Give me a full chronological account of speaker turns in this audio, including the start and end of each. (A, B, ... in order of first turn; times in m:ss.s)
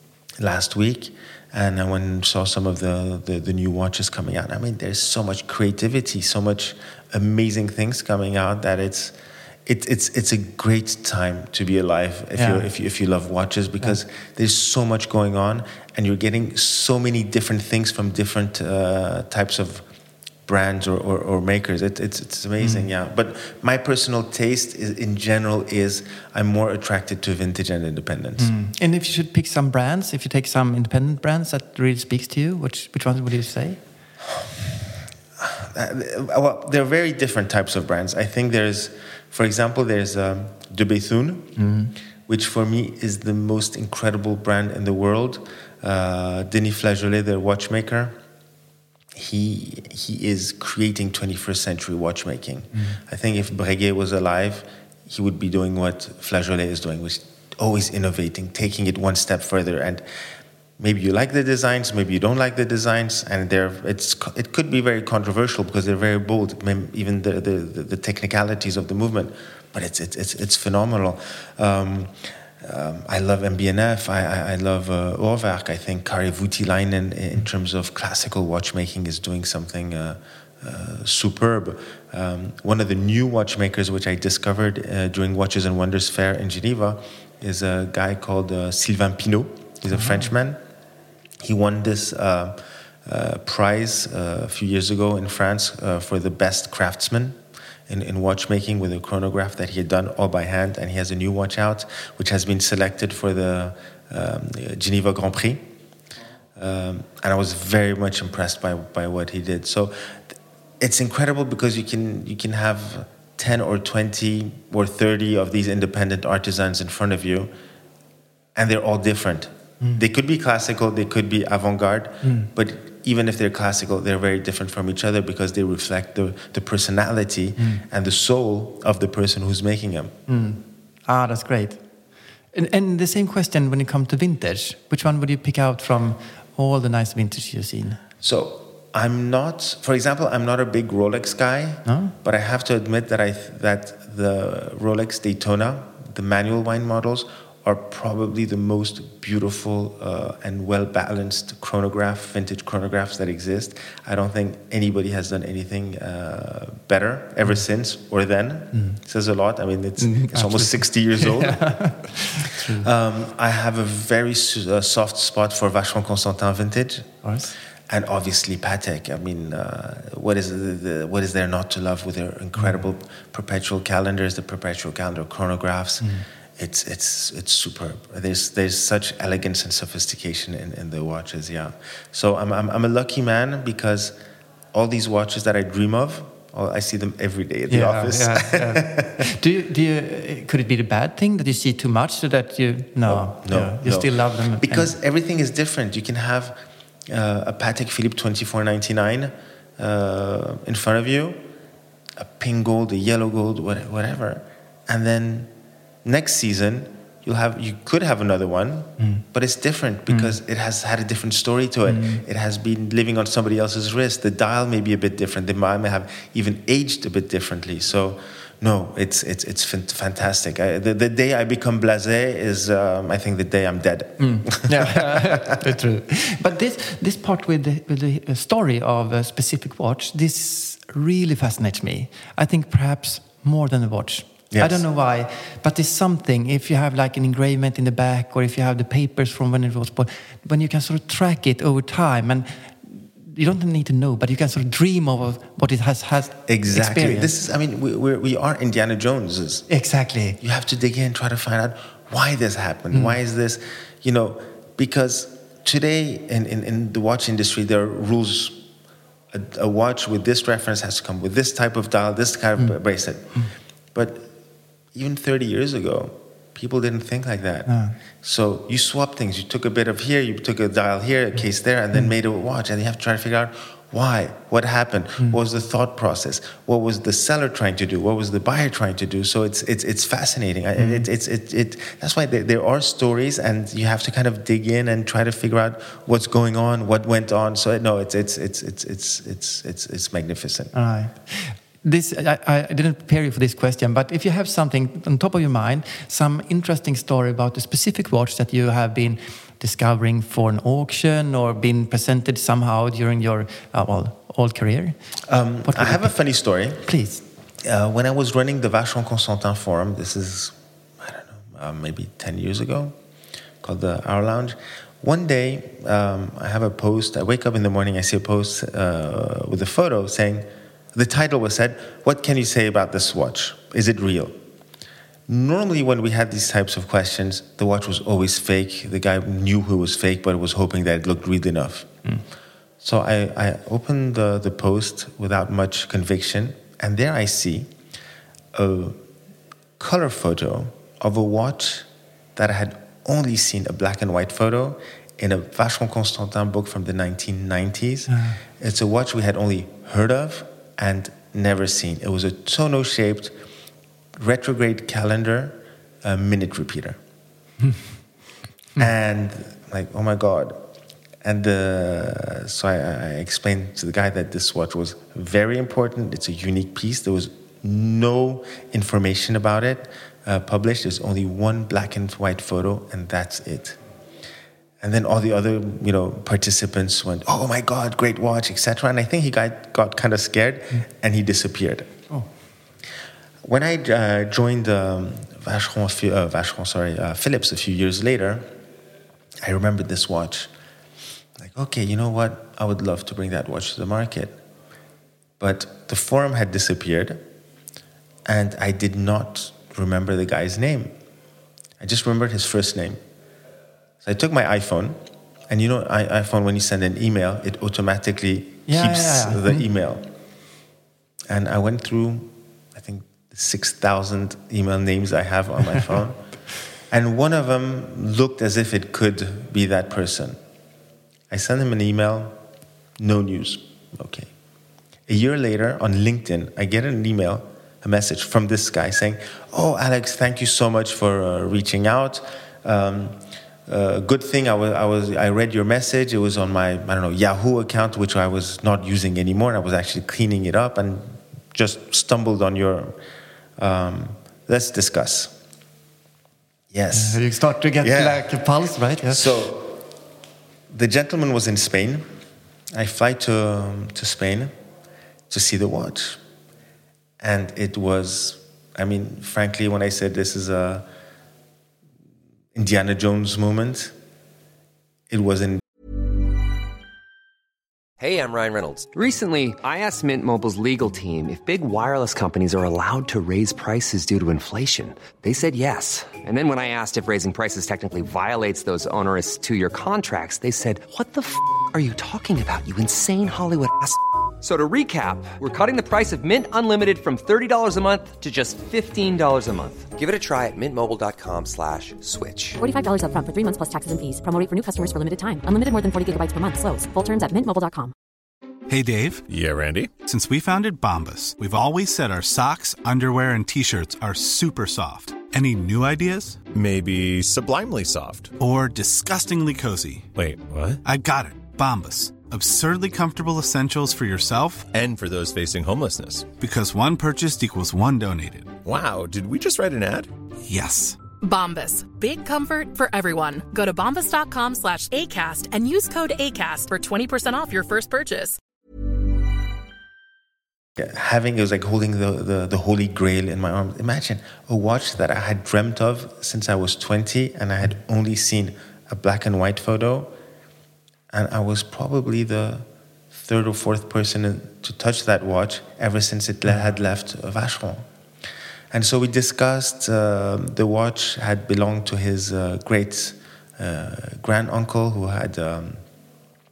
0:00.4-0:19.9 A
0:12.4-0:12.7 B
0:20.5-0:28.6 A
0:22.6-0:22.9 B
0:28.4-0:33.8 B
0:35.4-0:41.6 A
0:41.6-0:41.9 B
0:42.3-0:48.2 A
0:49.1-1:00.0 A
0:52.7-0:53.0 B
1:00.8-1:30.6 A
1:29.9-1:30.3 B
1:31.4-1:45.7 A
1:46.6-1:57.5 A
1:58.6-2:10.2 A
2:02.2-2:02.5 B
2:07.6-2:07.8 B
2:10.3-2:11.8 B
2:12.5-2:18.0 B
2:18.2-2:42.0 A
2:21.8-2:22.1 B
2:38.7-2:39.0 B
2:40.0-2:42.9 B
2:42.7-2:47.2 A
2:47.2-2:47.5 B
2:47.9-3:04.2 A
2:56.0-2:56.3 B
3:04.7-3:09.3 A
3:07.7-3:14.9 B
3:13.0-3:21.4 A
3:22.2-3:25.5 A
3:26.0-3:45.4 A
3:29.0-3:29.2 B
3:30.1-3:30.4 B
3:31.8-3:32.2 B
3:44.2-4:07.3 B
3:54.5-3:54.8 A
4:06.5-4:09.7 A
4:09.7-4:10.4 B
4:10.4-4:18.7 A
4:12.9-4:13.2 B
4:19.3-4:24.3 A
4:24.9-4:50.7 A
4:27.7-4:28.0 B
4:40.8-4:41.1 B
4:50.7-5:05.0 B
5:05.3-5:06.9 A
5:05.6-5:06.2 B
5:06.8-5:07.2 B
5:07.6-5:13.0 A
5:13.6-5:24.4 A
5:25.3-5:32.0 A
5:32.8-5:37.7 A
5:38.5-5:39.0 A
5:39.8-5:53.4 A
5:48.1-5:48.4 B
5:54.2-5:57.0 A
5:57.6-5:57.9 B
5:58.8-6:00.7 A
6:01.2-6:13.8 A
6:14.8-6:21.9 A
6:23.4-6:28.5 A
6:29.4-6:30.5 A
6:31.4-6:34.4 A
6:35.4-6:37.2 A
6:38.3-6:41.0 A
6:41.8-6:43.0 A
6:44.0-6:50.1 A
6:48.7-6:49.6 B
6:51.3-6:56.2 A
6:56.9-7:00.4 A
7:01.3-7:02.4 A
7:03.0-7:04.3 A
7:05.1-7:23.0 A
7:23.6-7:25.4 A
7:26.7-7:27.3 A
7:26.9-7:29.3 B
7:27.8-7:28.4 A
7:29.0-7:29.8 A
7:30.7-7:32.1 A
7:32.7-7:34.5 A
7:35.3-7:36.2 A
7:37.2-7:40.9 A
7:42.5-7:43.9 A
7:45.1-7:45.6 A
7:48.0-8:12.6 C
8:12.6-8:17.9 D
8:18.7-8:19.2 E
8:19.3-8:19.9 F
8:20.0-8:26.4 E
8:26.5-8:28.3 F
8:28.4-8:30.1 E
8:30.2-8:30.8 F
8:30.8-8:34.7 E
8:34.7-8:36.3 F
8:36.4-8:38.6 E
8:38.6-8:40.1 F
8:40.4-8:41.0 E
8:41.2-8:48.4 G
8:50.8-9:00.1 A
9:01.1-9:07.9 A
9:08.7-9:15.8 A